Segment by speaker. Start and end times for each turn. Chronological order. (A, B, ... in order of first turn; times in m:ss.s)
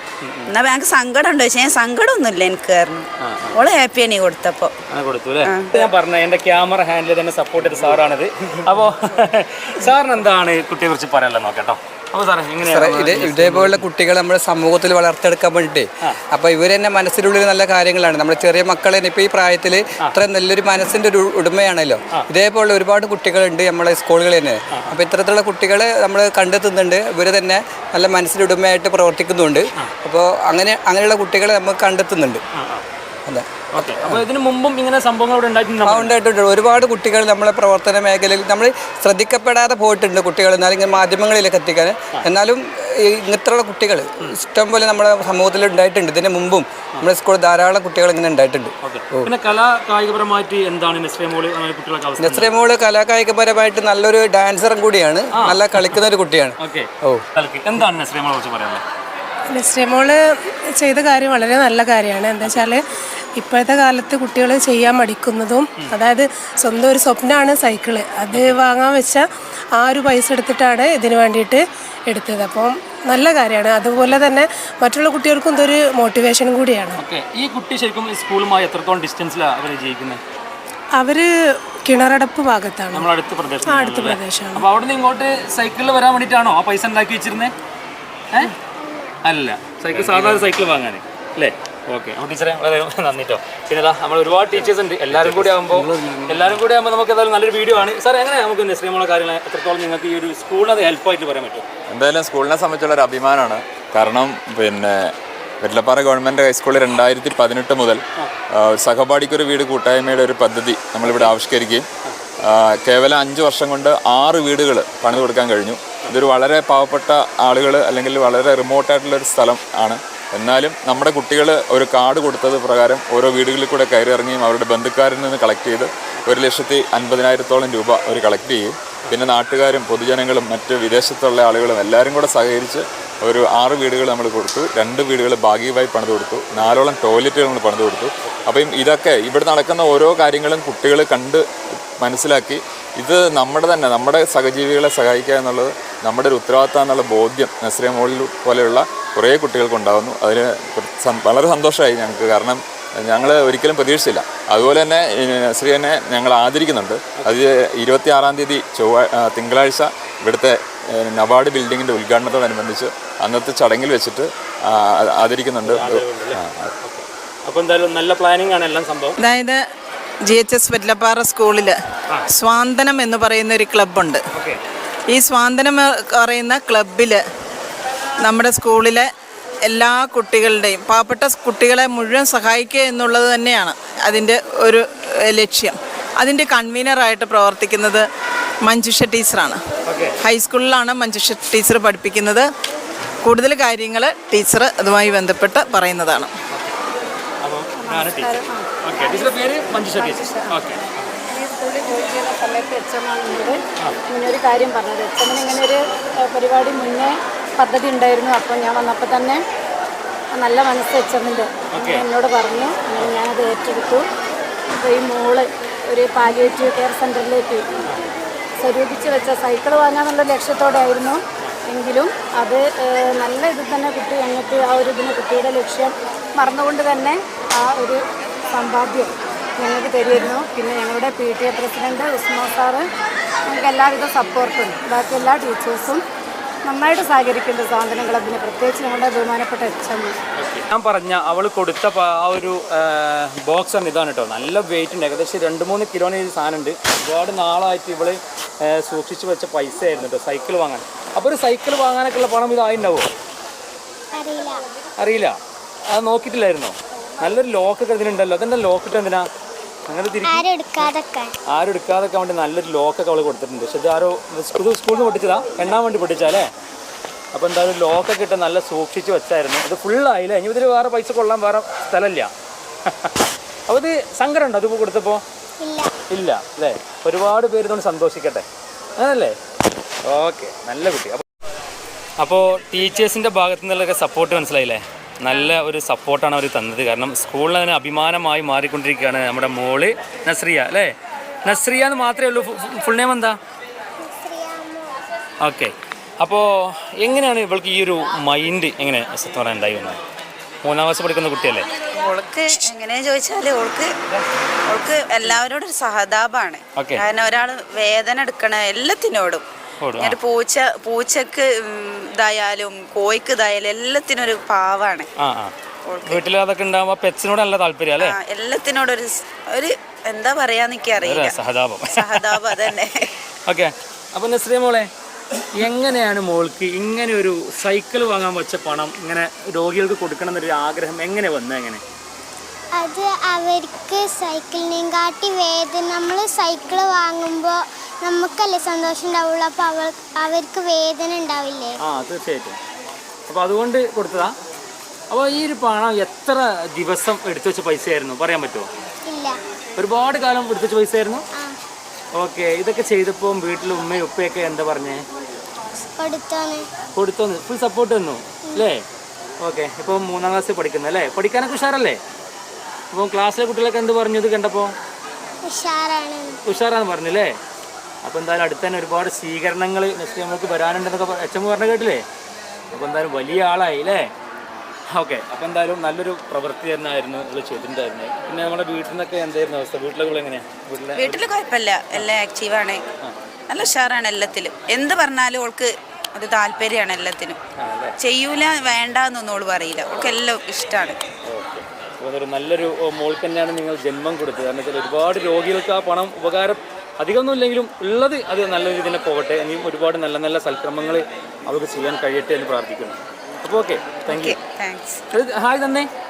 0:00.2-0:00.5 A
0:00.5-0:04.7 B
0:03.2-0:03.6 A
0:04.9-0:13.8 A
0:05.4-0:05.7 B
0:12.6-0:32.4 C
0:32.6-0:32.8 A
0:33.2-0:34.2 C
0:33.7-0:36.1 A
0:35.8-0:49.3 C
0:48.8-0:52.5 A
0:52.2-0:57.2 C
0:55.3-0:55.9 A
0:56.6-0:58.8 A
0:59.5-1:00.2 D
1:00.8-1:02.8 D
1:02.4-1:02.7 A
1:03.4-1:09.2 D
1:08.3-1:08.6 A
1:09.8-1:17.0 D
1:17.0-1:20.2 A
1:20.9-1:21.3 D
1:21.8-1:23.1 D
1:22.9-1:27.5 A
1:23.6-1:24.6 D
1:29.2-1:41.6 A
1:35.1-1:36.4 E
1:41.9-1:48.0 E
1:48.5-1:51.9 E
1:52.4-2:21.4 E
2:22.0-2:46.7 E
2:45.6-2:49.1 A
2:49.2-2:49.6 F
2:50.2-2:51.8 F
2:52.3-2:54.2 F
2:54.3-2:54.6 A
2:55.1-2:57.2 F
2:58.2-2:59.1 F
2:59.6-3:08.0 F
3:08.6-3:09.6 F
3:09.9-3:10.2 A
3:10.2-3:12.4 F
3:13.2-3:16.3 F
3:16.5-3:16.8 A
3:17.4-3:21.1 A
3:17.8-3:20.6 G
3:21.3-3:29.4 G
3:30.3-3:34.0 G
3:31.7-3:32.1 A
3:34.7-3:37.8 G
3:38.6-3:52.8 G
3:53.5-3:56.0 G
3:56.6-4:00.1 G
4:00.3-4:13.1 A
4:14.1-4:14.6 H
4:15.0-4:15.4 A
4:15.9-4:19.3 A
4:19.9-4:20.8 A
4:20.2-4:21.4 H
4:21.5-4:26.5 A
4:27.3-4:32.3 A
4:32.9-4:35.2 A
4:35.6-4:35.9 H
4:36.1-4:38.4 A
4:39.0-4:39.4 A
4:40.0-4:41.2 A
4:42.2-4:50.9 A
4:51.4-4:53.4 A
4:54.0-4:55.0 H
4:55.4-5:00.0 A
5:00.6-5:01.6 A
5:01.9-5:04.0 B
5:04.7-5:09.4 B
5:06.8-5:07.0 A
5:09.8-5:10.2 A
5:10.0-5:15.1 B
5:15.2-5:15.5 A
5:15.8-5:16.2 B
5:16.1-5:18.1 A
5:18.0-5:23.1 B
5:21.0-5:22.4 A
5:23.5-5:24.9 A
5:25.5-5:31.8 A
5:32.7-5:41.8 H
5:41.8-5:42.6 A
5:43.3-5:44.3 A
5:45.1-5:48.7 A
5:49.0-5:49.4 H
5:49.8-5:51.2 A
5:52.1-5:55.0 A
5:55.8-5:56.7 H
5:57.0-5:58.8 A
5:59.4-6:02.0 A
6:02.9-6:04.7 A
6:05.4-6:06.4 H
6:06.5-6:07.4 A
6:08.0-6:12.0 A
6:12.7-6:14.1 A
6:14.9-6:21.2 A
6:21.0-6:22.8 B
6:23.5-6:27.4 B
6:27.6-6:27.9 A
6:28.0-6:31.0 B
6:31.2-6:44.4 A
6:44.1-6:45.0 B
6:45.1-6:45.9 A